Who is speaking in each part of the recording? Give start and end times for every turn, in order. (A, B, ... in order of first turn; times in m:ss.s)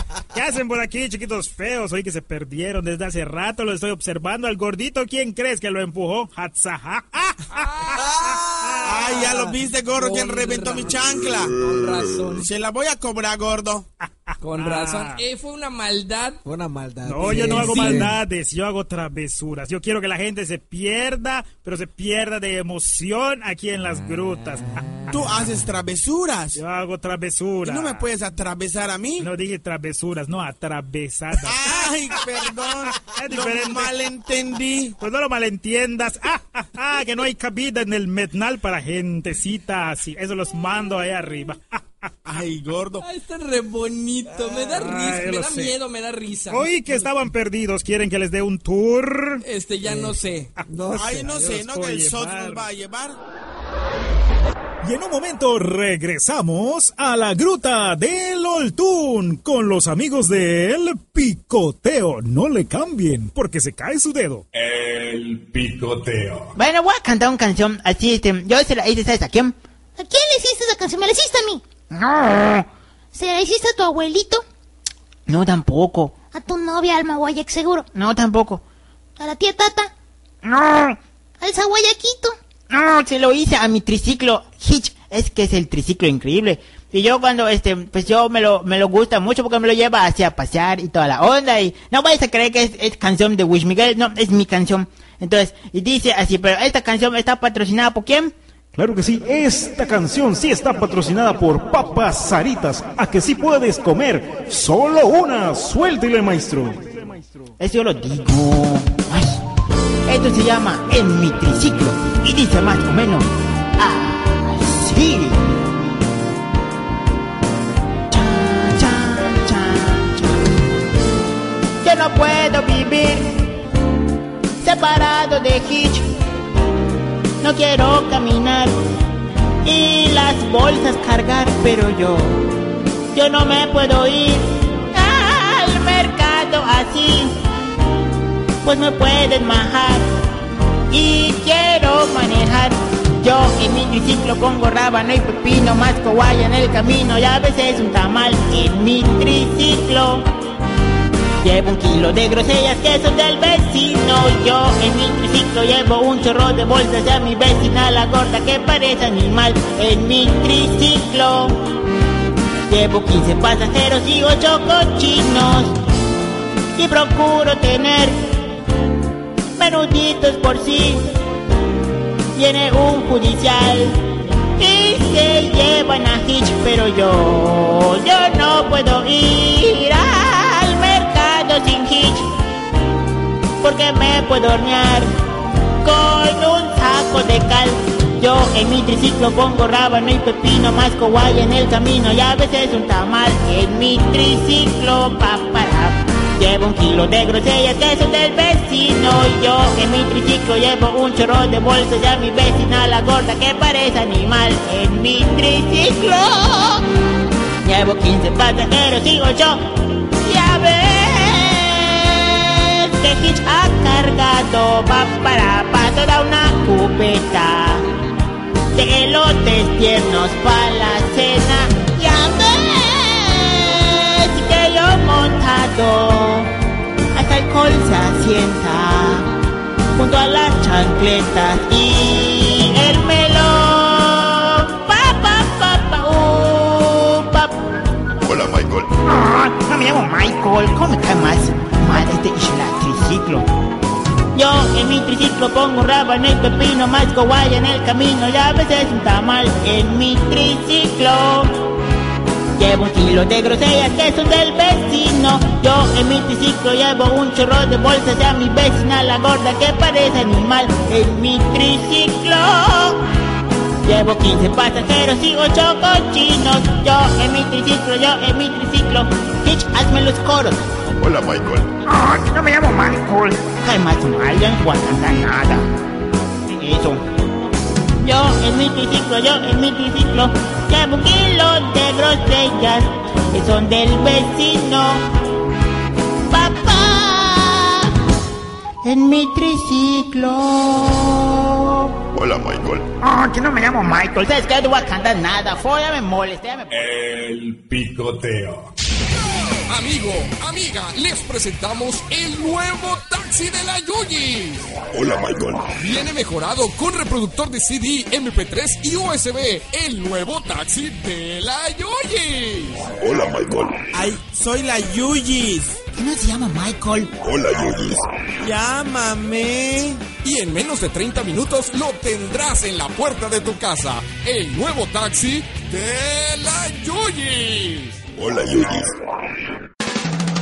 0:00.3-0:09.3 A
0:07.5-0:08.4 B
0:07.9-0:09.0 C
0:08.8-0:11.5 D
0:10.0-0:12.5 B
0:12.3-0:13.9 D
0:14.0-0:15.2 A
0:14.4-0:16.4 B
0:16.4-0:18.1 C
0:17.0-0:24.8 A
0:17.2-0:18.1 B
0:25.1-0:26.6 D
0:26.6-0:28.0 A
0:27.6-0:29.3 D
0:29.2-0:33.9 A
0:31.3-0:35.0 D
0:35.0-0:42.1 A
0:42.2-0:43.0 D
0:43.0-0:46.7 B
0:44.7-0:45.7 A
0:46.5-0:49.4 A
0:49.4-0:50.5 B
0:49.8-0:51.6 C
0:50.9-0:53.2 D
0:51.2-0:52.6 A
0:54.8-1:04.4 A
1:04.5-1:06.5 E
1:06.6-1:09.5 F
1:10.0-1:11.6 G
1:11.9-1:12.6 F
1:13.1-1:14.4 G
1:15.3-1:16.2 F
1:16.3-1:17.9 G
1:17.9-1:18.6 F
1:19.2-1:19.9 G
1:20.4-1:21.0 F
1:21.4-1:22.4 G
1:22.7-1:38.3 F
1:38.7-1:47.2 A
1:47.6-1:49.4 F
1:50.1-1:55.6 F
1:58.1-2:00.4 F
2:01.8-2:03.5 F
2:04.6-2:06.1 F
2:07.4-2:08.8 F
2:09.6-2:12.4 F
2:13.1-2:17.4 F
2:18.6-2:20.1 F
2:20.9-2:30.2 F
2:31.4-2:41.6 F
2:42.7-2:45.8 F
2:46.8-2:48.3 F
2:49.6-2:51.1 F
2:52.3-2:54.0 F
2:54.6-3:02.3 F
3:03.6-3:05.1 F
3:05.8-3:26.8 F
3:27.6-3:29.6 F
3:30.2-3:37.8 F
3:38.7-3:46.5 F
3:47.1-3:49.3 F
3:50.0-3:57.6 F
3:58.2-3:58.9 H
3:59.0-4:03.4 F
4:04.3-4:11.5 F
4:12.6-4:23.0 F
4:23.8-4:30.6 F
4:31.0-4:31.7 H
4:31.8-4:35.6 F
4:36.5-4:37.0 F
4:38.0-4:45.0 F
4:46.3-4:47.9 F
4:48.8-4:51.9 F
4:52.1-4:52.9 H
4:53.0-4:56.7 F
4:56.7-4:58.7 E
4:59.7-5:04.7 I
5:04.9-5:05.7 H
5:05.8-5:12.9 I
5:13.0-5:13.9 H
5:13.9-5:15.8 D
5:15.9-5:17.1 F
5:17.2-5:18.1 H
5:18.4-5:20.0 D
5:20.2-5:28.0 I
5:28.2-5:29.0 H